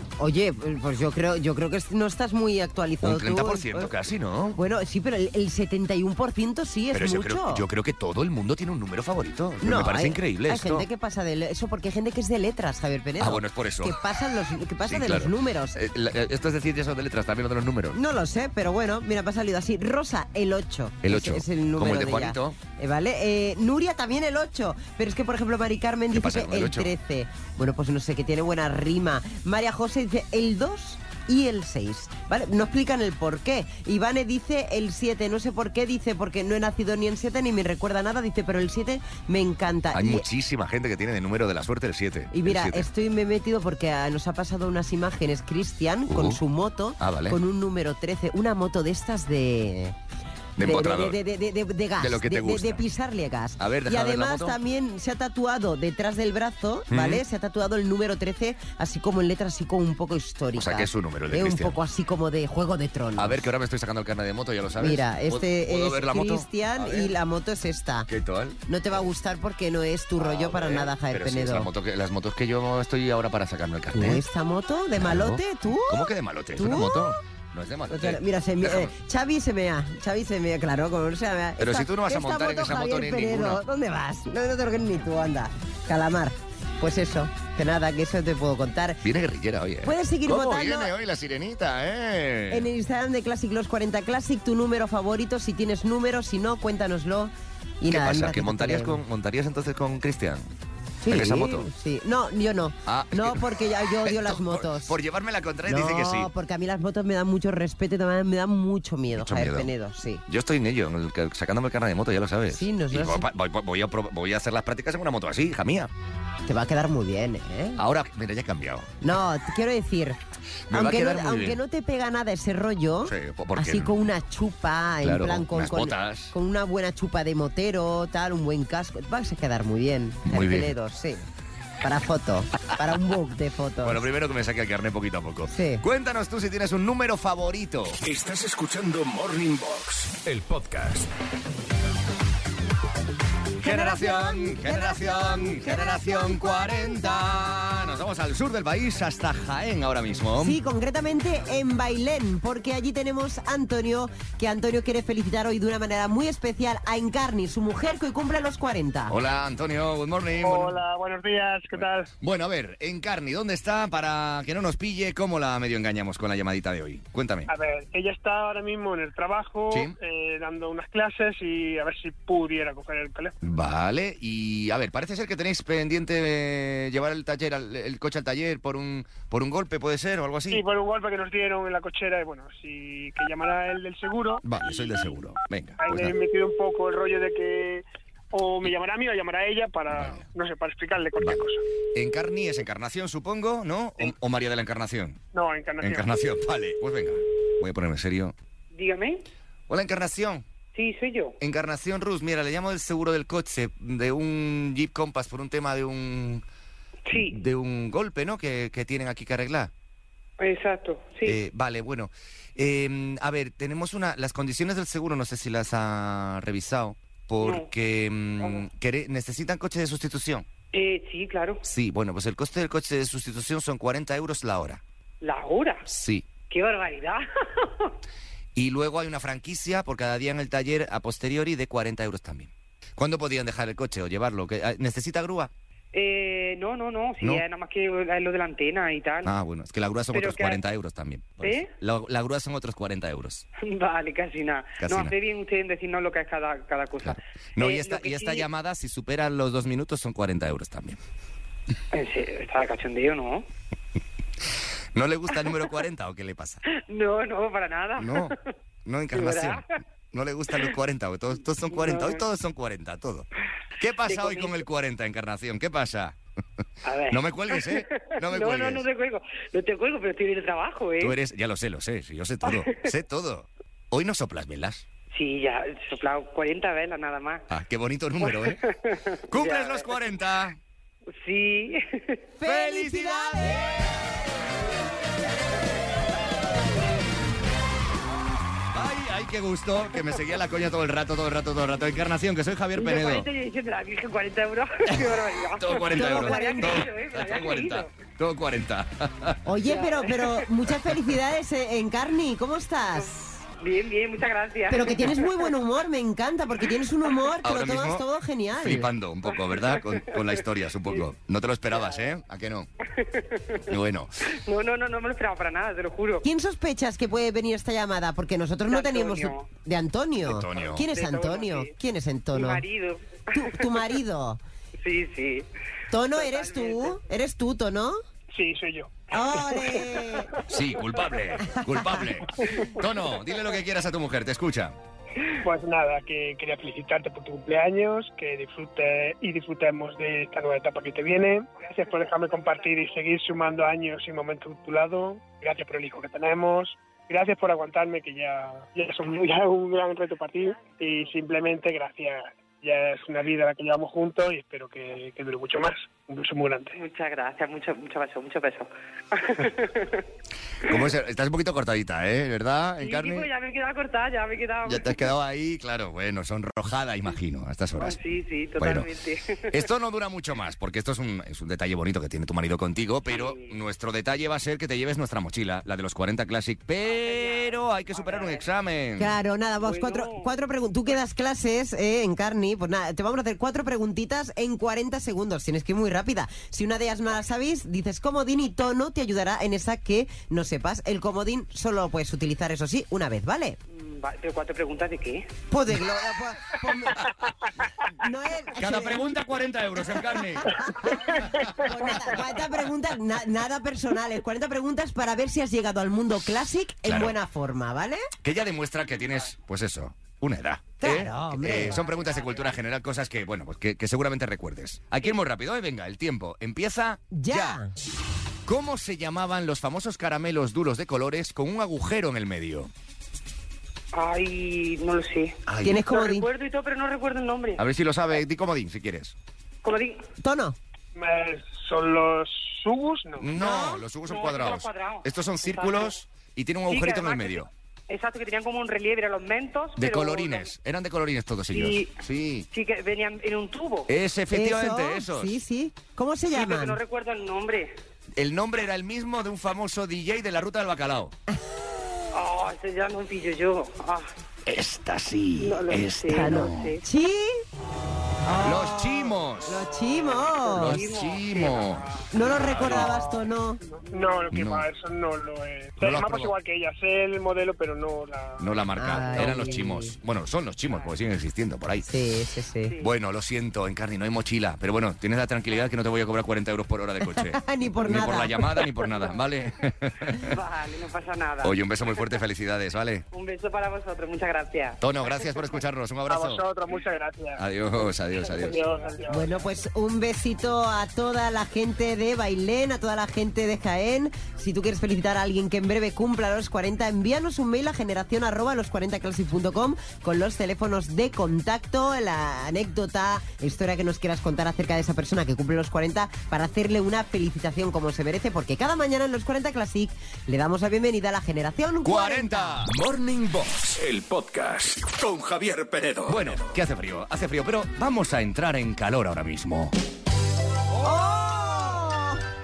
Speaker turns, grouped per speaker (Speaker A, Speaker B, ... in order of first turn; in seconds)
Speaker A: 0.2-3.9, 4.5-7.6, 9.6-15.8, 17.9-40.2, 42.3-50.0, 50.6-63.4, 64.8-68.1, 68.7-71.7, 73.9-77.2, 77.9-89.0, 89.8-90.9, 92.5-99.0, 101.0-105.0, 105.7-110.2, 112.5-113.2, 116.5-117.8, 119.0-120.2, 120.7-131.3, 131.8-134.0, 135.5-135.8, 143.6-147.3, 150.4-159.1, 282.4-283.8, 295.9-296.8, 299.4-303.4, 304.7-308.9, 316.2-322.6, 323.3-324.4, 325.9-328.0, 329.1-330.4, 331.5-332.0, 379.0-393.6, 395.5-397.1, 397.9-399.0, 400.4-408.1, 410.8-411.8, 417.1-417.7, 425.6-426.3, 430.2-430.6, 433.4-433.8, 444.3-446.8, 456.1-457.4, 458.2-460.8, 462.1-463.6, 468.8-469.9, 471.9-472.7, 477.1-478.5, 489.1-512.6, 520.8-522.2
Speaker B: 3.0-4.6, 6.9-10.8, 13.2-14.0, 14.8-18.0, 21.0-22.6, 26.1-26.9, 39.9-42.9, 46.1-46.4, 47.0-47.4, 50.6-51.2, 52.0-52.8, 53.6-54.6, 56.9-57.2, 60.5-61.8, 63.1-67.1, 68.1-68.6, 70.2-74.2, 75.0-78.9, 81.6-83.6, 89.0-92.7, 97.9-100.5, 101.1-101.7, 102.8-106.3, 109.1-109.7, 110.2-115.9, 117.8-118.9, 120.7-121.6, 123.0-123.9, 125.0-126.3, 130.2-130.7, 133.8-138.0, 143.6-150.6, 159.1-160.8, 161.7-167.5, 169.7-169.9, 173.4-180.6, 184.4-186.1, 189.9-190.2, 191.9-195.2, 195.8-198.3, 199.7-200.4, 201.4-206.4, 207.1-209.7, 211.2-220.4, 221.6-224.8, 225.8-226.3, 228.5-235.5, 239.2-243.4, 244.8-245.1, 247.0-251.0, 254.9-256.6, 258.0-258.3, 258.8-263.3, 263.8-266.2, 267.1-268.8, 271.0-274.9, 277.5-278.6, 279.3-280.6, 282.4-284.1, 288.7-293.3, 294.9-299.4, 307.4-312.7, 313.6-314.2, 320.2-320.9, 330.5-334.8, 360.6-363.3, 364.6-368.0, 368.6-368.9, 369.5-379.2, 398.5-400.6, 406.8-407.2, 408.2-417.6, 418.4-422.7, 425.5-425.9, 427.6-429.1, 433.2-437.5, 439.8-442.5, 443.9-445.4, 448.1-451.1, 454.4-456.8, 458.4-459.6, 460.5-462.9, 464.3-464.6, 465.8-466.3, 468.4-471.9, 472.8-480.4, 481.4-483.1, 484.8-486.4, 487.4-488.6, 511.8-512.7, 516.0-519.7, 520.7-521.9
Speaker C: 138.0-141.1, 512.6-516.6
Speaker D: 160.4-162.1, 167.5-173.3, 180.5-184.4, 185.8-191.6, 195.3-196.1, 328.3-330.1, 332.4-332.7, 335.4-356.8, 430.9-433.3, 463.7-468.4, 486.1-487.4, 488.4-489.3
Speaker E: 198.7-199.2, 200.7-201.3, 207.1-207.4, 210.4-211.4, 217.4-217.7, 220.7-221.6, 225.2-225.8, 226.5-227.9, 235.9-239.3, 240.1-240.6, 241.4-241.7, 243.6-248.4, 251.9-253.4, 256.7-258.4, 259.1-259.6, 261.7-262.2, 264.1-264.6, 266.8-271.1, 272.4-272.9, 275.1-277.4, 278.2-279.9, 281.1-282.2, 292.8-297.9, 299.7-300.4, 302.9-305.5, 309.3-310.3, 311.7-312.1, 312.8-313.7, 314.2-316.2, 318.7-319.5, 320.9-321.7, 322.3-323.9, 324.8-325.5, 326.1-327.0, 356.8-360.1, 362.8-365.1, 367.8-369.6, 373.1-373.5, 376.8-378.4, 379.6-380.3, 393.7-395.3, 411.5-412.5, 423.9-427.6, 429.6-430.0, 434.1-435.9, 436.7-440.5, 441.5-441.9, 442.5-443.9, 446.3-447.7, 452.1-454.1, 455.4-456.8, 460.4-462.9, 463.9-464.3, 472.7-472.9, 478.8-479.2, 480.1-482.1, 483.1-485.4, 488.3-489.0